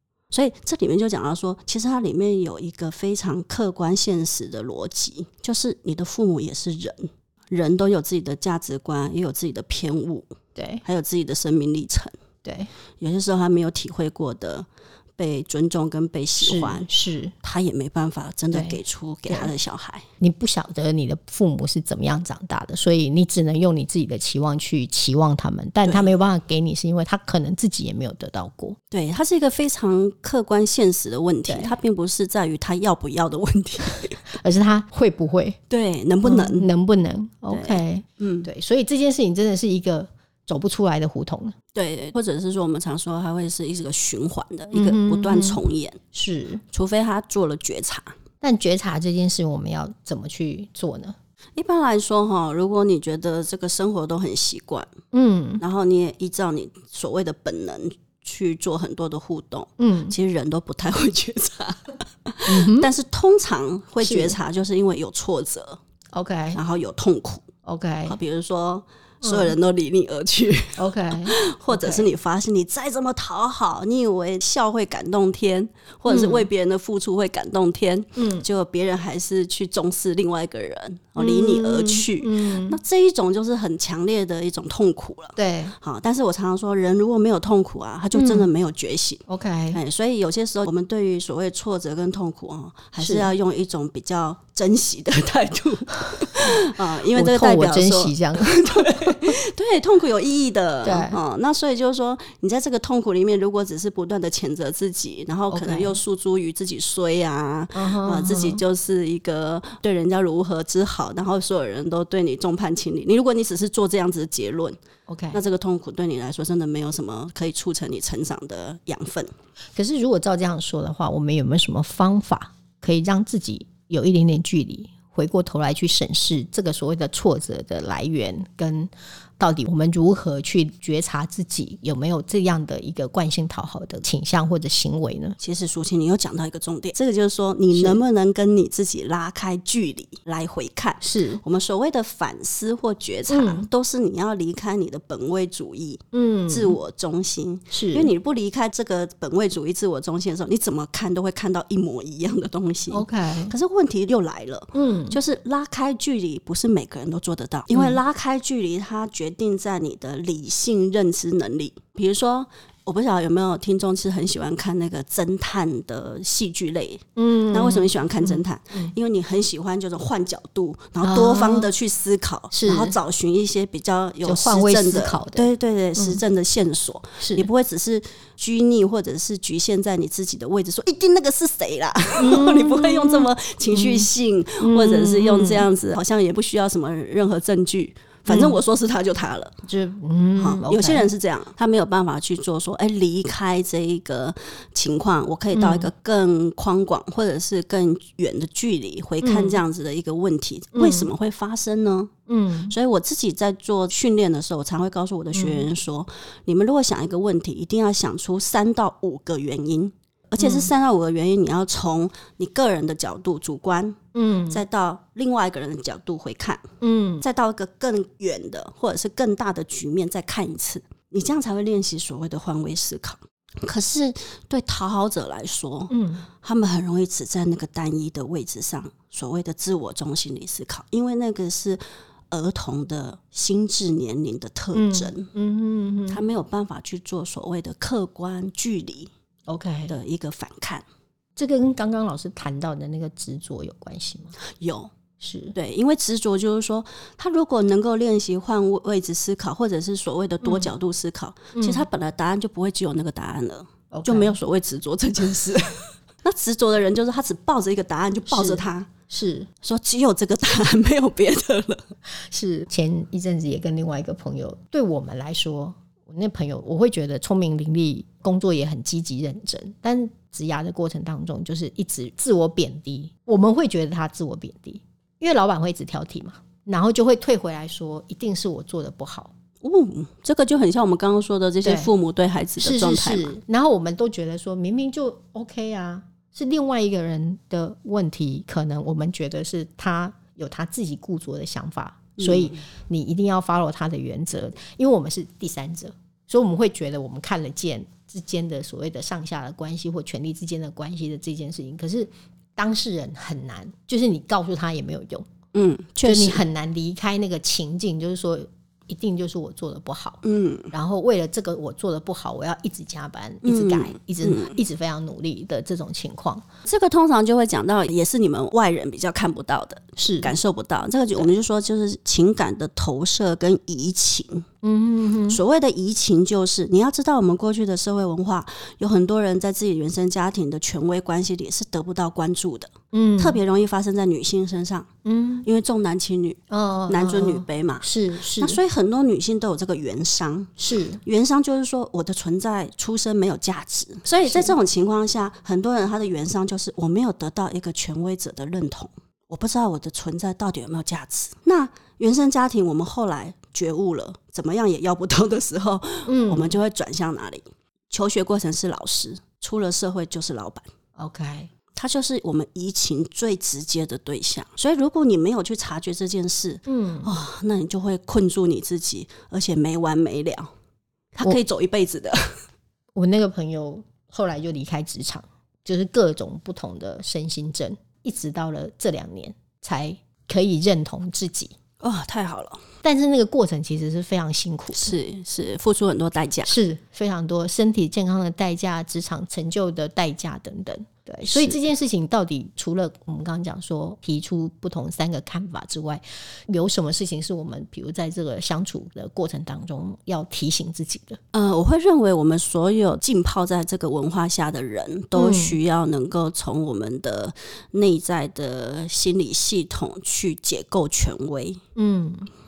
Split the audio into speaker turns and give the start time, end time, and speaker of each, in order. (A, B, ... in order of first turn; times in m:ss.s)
0:00.3-0:10.3 A
0:10.6-0:10.8 B
0:10.8-0:12.1 A
0:12.4-0:12.7 B
0:13.0-0:14.7 A
0:15.2-0:16.9 A
0:16.4-0:17.3 B
0:17.4-0:20.1 A
0:18.5-0:19.5 B
0:20.2-0:28.8 B
0:25.8-0:26.1 A
0:28.9-0:34.3 A
0:31.5-0:31.7 B
0:34.3-0:35.6 B
0:35.7-0:36.7 A
0:36.2-0:41.6 B
0:37.5-0:38.5 A
0:41.7-0:46.0 A
0:44.7-0:45.6 B
0:46.1-0:46.6 B
0:46.7-0:48.1 A
0:48.4-0:51.2 B
0:51.6-0:54.9 A
0:55.1-0:55.6 B
0:55.6-1:05.8 A
0:59.8-1:00.2 B
1:02.4-1:02.9 B
1:04.0-1:04.4 B
1:06.1-1:06.6 B
1:06.5-1:07.5 A
1:07.6-1:08.2 B
1:08.1-1:54.8 A
1:09.2-1:09.5 B
1:10.8-1:12.1 B
1:16.1-1:16.5 B
1:18.2-1:18.4 B
1:21.2-1:22.8 B
1:25.4-1:25.8 B
1:28.1-1:28.5 B
1:29.3-1:29.8 B
1:33.0-1:33.3 B
1:37.1-1:39.3 B
1:40.8-1:41.2 B
1:45.5-1:46.0 B
1:47.7-1:48.6 B
1:55.1-1:55.4 B
1:55.3-1:59.3 A
1:59.8-2:15.4 B
2:15.4-3:09.6 A
2:17.7-2:18.0 B
2:21.0-2:21.4 B
2:23.3-2:23.7 B
2:26.1-2:26.8 B
2:27.7-2:28.1 B
2:32.9-2:33.5 B
2:34.7-2:35.2 B
2:37.7-2:38.0 B
2:47.2-2:48.9 B
2:51.0-2:51.7 B
2:52.5-2:52.9 B
2:54.2-2:56.2 B
2:57.2-2:57.5 B
3:02.2-3:04.1 B
3:04.6-3:05.7 B
3:08.3-3:08.6 B
3:09.6-3:11.1 B
3:10.4-3:22.1 A
3:15.5-3:15.9 B
3:19.2-3:19.6 B
3:20.7-3:21.1 B
3:22.3-3:22.7 B
3:22.7-3:36.6 A
3:25.3-3:25.7 B
3:30.4-3:30.7 B
3:34.1-3:34.6 B
3:36.8-3:37.2 B
3:37.2-3:55.3 A
3:45.9-3:46.3 B
3:54.7-3:56.2 B
3:56.1-3:59.1 A
3:59.5-3:59.9 B
3:59.9-4:00.8 A
4:01.4-4:04.4 B
4:04.4-4:04.9 A
4:05.2-4:05.6 B
4:05.5-4:18.9 A
4:10.4-4:10.7 B
4:11.6-4:11.9 B
4:13.9-4:14.4 B
4:18.3-4:19.5 B
4:19.6-4:21.9 A
4:22.1-4:39.3 B
4:39.6-4:43.3 A
4:41.6-4:41.9 B
4:42.6-5:05.3 B
4:52.2-4:52.6 A
5:05.5-5:06.4 A
5:06.0-5:16.4 B
5:10.2-5:10.7 A
5:13.4-5:14.6 A
5:16.6-5:24.4 A
5:20.0-5:20.3 B
5:24.6-5:25.4 B
5:25.3-5:34.9 A
5:32.9-5:33.4 B
5:35.0-5:35.4 B
5:35.4-6:00.7 A
5:36.5-5:38.6 B
5:40.6-5:41.0 B
5:44.3-5:44.5 B
5:56.1-5:56.6 B
6:01.0-6:01.5 B
6:01.8-6:10.5 A
6:06.7-6:07.1 B
6:11.1-6:12.4 A
6:12.9-6:21.5 B
6:21.8-6:22.6 A
6:22.8-6:24.9 B
6:24.7-6:26.6 A
6:26.4-6:41.2 B
6:31.2-6:31.6 A
6:41.3-6:51.6 A
6:45.1-6:45.6 B
6:51.8-6:52.3 B